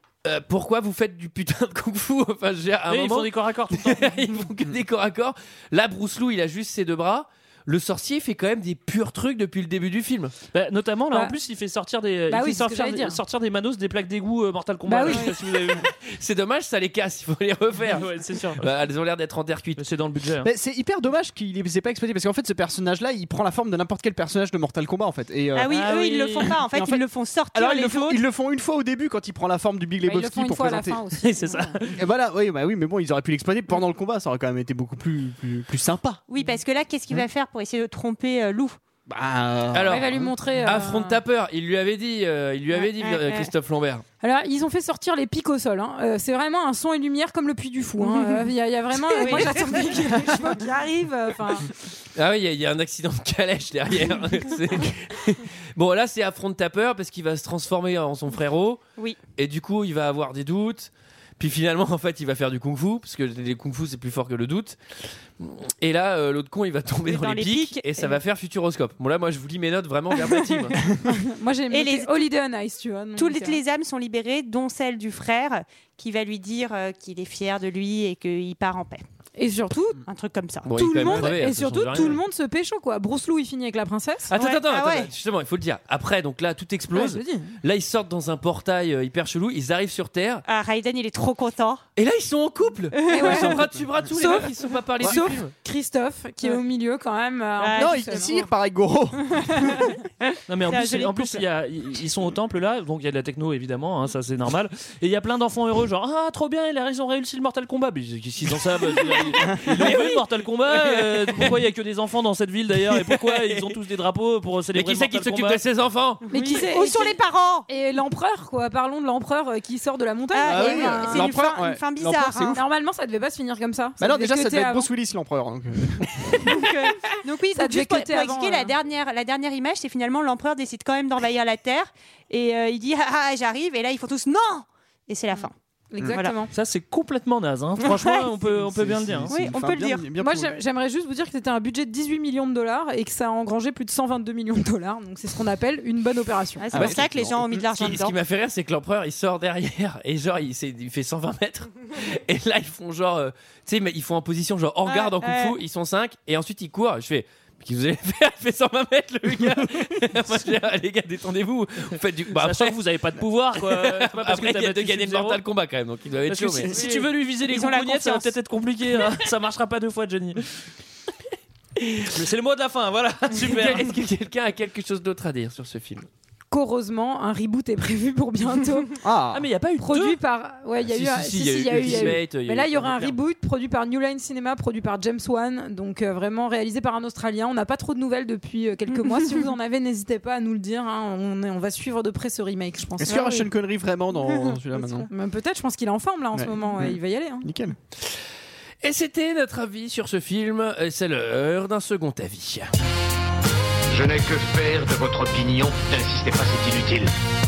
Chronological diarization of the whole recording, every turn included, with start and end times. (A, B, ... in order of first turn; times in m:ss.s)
0:00.2-0:10.3 A
0:02.9-0:04.4 B
0:10.5-0:15.8 B
0:12.3-0:13.2 C
0:14.9-0:15.4 C
0:16.0-0:19.8 A
0:17.9-0:18.7 B
0:19.8-0:20.5 B
0:20.4-0:25.7 D
0:25.5-0:28.2 E
0:25.7-0:26.6 B
0:26.6-0:31.0 D
0:30.0-0:31.8 C
0:31.2-0:32.0 B
0:32.0-0:36.2 D
0:36.3-0:38.8 E
0:39.1-0:40.3 D
0:39.7-0:44.0 A
0:39.8-0:41.2 C
0:42.7-0:43.5 E
0:44.2-0:51.7 C
0:49.0-0:50.5 E
0:52.1-0:58.8 A
0:59.4-1:04.8 A
1:05.4-1:10.8 A
1:07.1-1:08.2 E
1:11.0-1:13.6 C
1:11.7-1:12.3 E
1:13.2-1:19.0 E
1:19.4-1:20.0 C
1:20.1-1:20.7 E
1:20.6-1:22.2 A
1:20.7-1:24.4 C
1:24.3-1:30.4 A
1:24.4-1:25.1 E
1:26.9-1:27.5 C
1:30.4-1:31.8 E
1:32.0-1:35.5 A
1:33.0-1:33.4 E
1:33.1-1:38.4 C
1:37.6-1:38.4 E
1:37.7-1:39.8 D
1:40.5-1:55.6 B
1:40.6-1:41.4 E
1:50.7-1:51.5 A
1:52.8-1:53.7 A
1:54.7-1:56.2 A
1:56.3-2:01.4 C
1:56.3-1:57.7 E
2:00.3-2:02.6 E
2:00.4-2:02.6 D
2:02.5-2:04.9 C
2:04.0-2:06.5 D
2:06.4-2:15.5 E
2:07.5-2:08.7 C
2:15.9-2:16.5 C
2:16.0-2:16.3 E
2:16.5-2:19.3 B
2:17.8-2:18.1 E
2:18.6-2:20.6 D
2:19.3-2:20.0 E
2:20.2-2:26.8 C
2:26.6-2:28.1 E
2:26.7-2:27.6 D
2:27.6-2:42.8 A
2:34.8-2:35.6 E
2:39.4-2:40.0 D
2:42.3-2:45.4 B
2:43.6-2:46.7 A
2:46.3-2:50.5 B
2:46.7-2:46.9 D
2:46.7-2:48.3 E
2:51.8-2:52.1 A
2:52.0-2:53.9 B
2:53.5-2:56.1 A
2:56.5-2:59.0 C
2:59.0-2:59.4 D
2:59.3-3:00.2 B
2:59.8-3:13.5 C
3:00.9-3:03.2 A
3:13.0-3:15.1 D
3:15.0-3:17.5 C
3:16.3-3:17.8 D
3:18.8-3:22.7 A
3:23.9-3:27.1 F